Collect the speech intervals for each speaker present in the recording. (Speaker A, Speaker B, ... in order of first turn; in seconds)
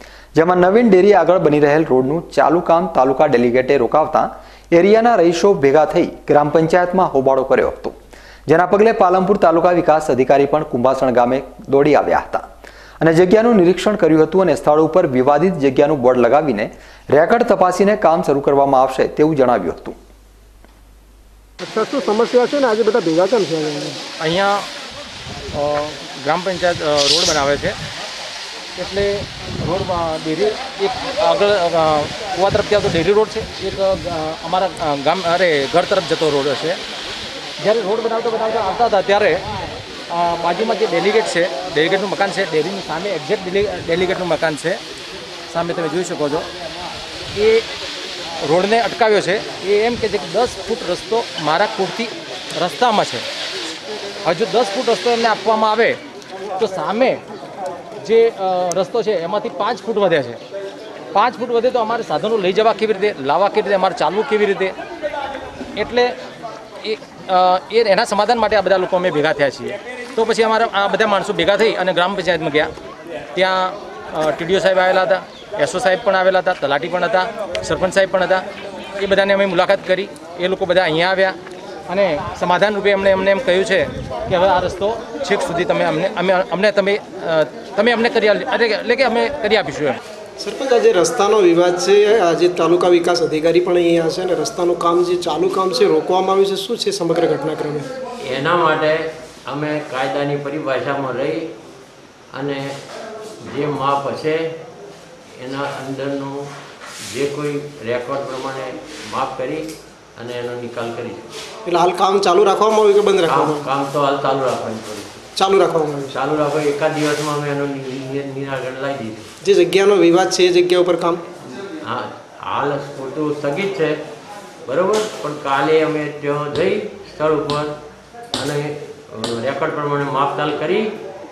Speaker A: 0.3-8.0, 8.5-12.5, 13.0-20.0
Speaker B: 21.6-24.0, 90.4-97.9, 111.7-113.7, 115.3-116.1, 119.4-121.2
Speaker C: 24.2-24.6, 25.5-27.8, 28.8-36.8, 37.6-39.4, 40.1-44.8, 45.5-46.5, 47.3-47.6, 48.4-53.2, 54.2-56.0, 56.6-57.2, 58.0-60.4, 61.1-64.7, 65.8-66.1, 66.8-72.7, 73.3-78.4, 79.0-81.4, 81.9-90.0
Speaker D: 98.2-101.5, 102.3-102.8, 103.4-104.5, 105.4-106.5, 107.0-111.4, 113.3-115.2, 116.1-119.3, 121.8-124.0, 124.7-127.7, 128.3-130.9